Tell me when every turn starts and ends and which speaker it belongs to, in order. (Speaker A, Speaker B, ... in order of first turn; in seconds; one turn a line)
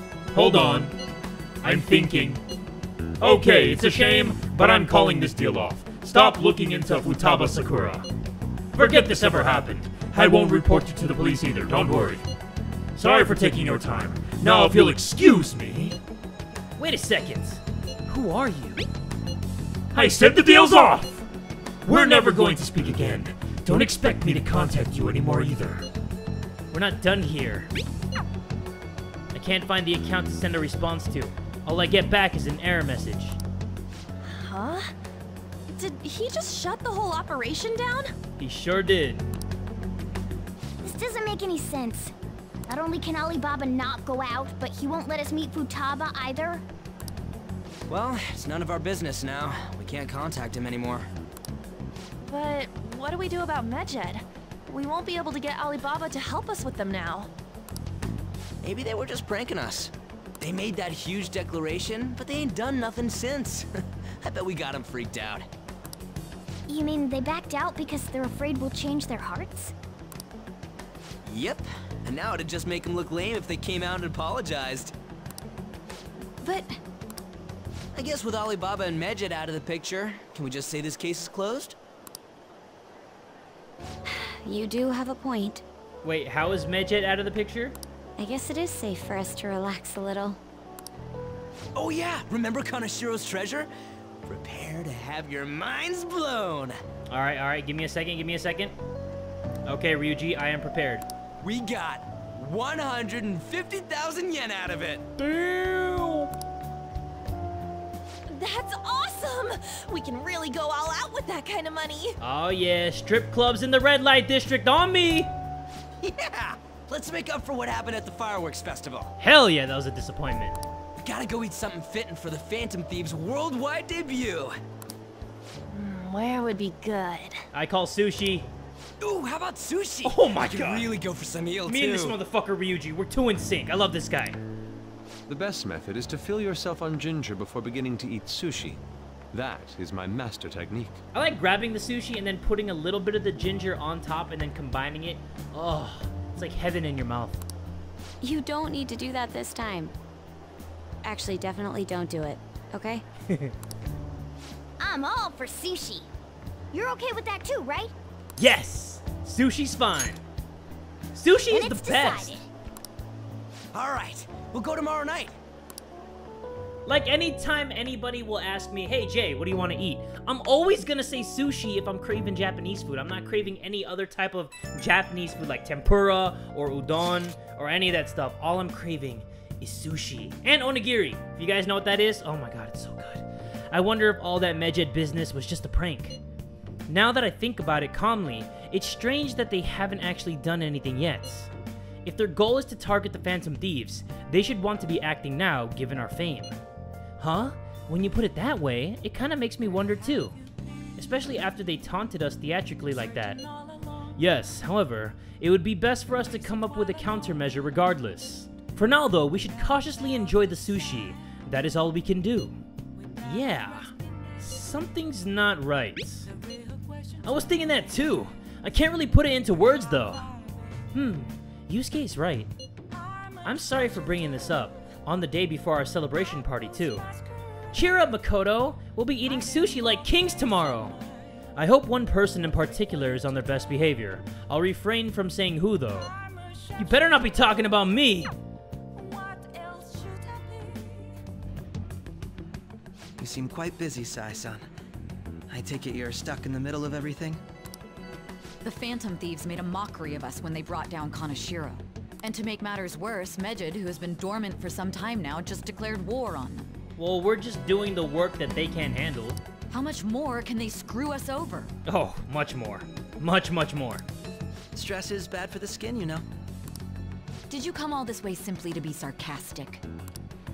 Speaker A: 0.3-0.9
Speaker A: 1.6-2.4
Speaker A: 3.2-8.1
Speaker A: 8.7-12.2
Speaker A: 13.0-16.0
Speaker B: 16.8-18.9
Speaker A: 19.9-21.2
Speaker A: 21.9-25.8
Speaker B: 26.7-27.7
Speaker B: 29.3-33.4
Speaker C: 34.2-34.9
Speaker C: 35.8-38.1
Speaker B: 38.4-39.2
Speaker D: 40.8-42.1
Speaker D: 42.7-46.6
Speaker E: 47.9-51.1
Speaker C: 52.3-57.3
Speaker E: 58.6-63.7
Speaker E: 64.2-65.5
Speaker D: 66.7-69.7
Speaker E: 71.2-74.9
Speaker F: 76.4-76.8
Speaker E: 77.9-81.7
Speaker F: 84.0-85.6
Speaker B: 86.0-87.8
Speaker F: 88.2-90.4
Speaker E: 91.7-93.7
Speaker E: 94.2-96.8
Speaker B: 97.1-98.7
Speaker B: 99.7-101.0
Speaker E: 101.4-105.1
Speaker B: 105.2-106.3
Speaker C: 108.3-112.2
Speaker B: 112.2-115.3
Speaker E: 116.0-119.1
Speaker B: 119.2-120.6
Speaker E: 121.0-124.5
Speaker C: 125.7-127.4
Speaker B: 127.5-128.5
Speaker E: 129.0-132.2
Speaker B: 130.0-130.9
Speaker B: 131.6-134.4
Speaker G: 135.3-138.8
Speaker G: 139.3-141.0
Speaker B: 141.1-147.4
Speaker F: 148.2-149.9
Speaker F: 151.0-153.0
Speaker D: 154.8-156.1
Speaker D: 156.7-157.9
Speaker B: 158.4-160.2
Speaker B: 161.1-162.4
Speaker D: 161.5-162.4
Speaker E: 163.7-165.3
Speaker B: 166.8-186.2
Speaker B: 186.9-191.5
Speaker B: 192.0-196.6
Speaker B: 197.2-200.3
Speaker B: 201.0-203.4
Speaker B: 204.2-212.6
Speaker B: 213.2-216.3
Speaker B: 217.2-220.3
Speaker B: 220.9-222.5
Speaker B: 223.4-227.0
Speaker B: 227.7-231.0
Speaker B: 231.6-236.1
Speaker B: 236.8-238.3
Speaker H: 243.2-244.6
Speaker H: 245.5-247.4
Speaker I: 248.6-256.7
Speaker B: 257.0-259.4
Speaker I: 259.7-261.7
Speaker B: 261.9-264.0
Speaker H: 264.7-266.2
Speaker I: 267.5-269.8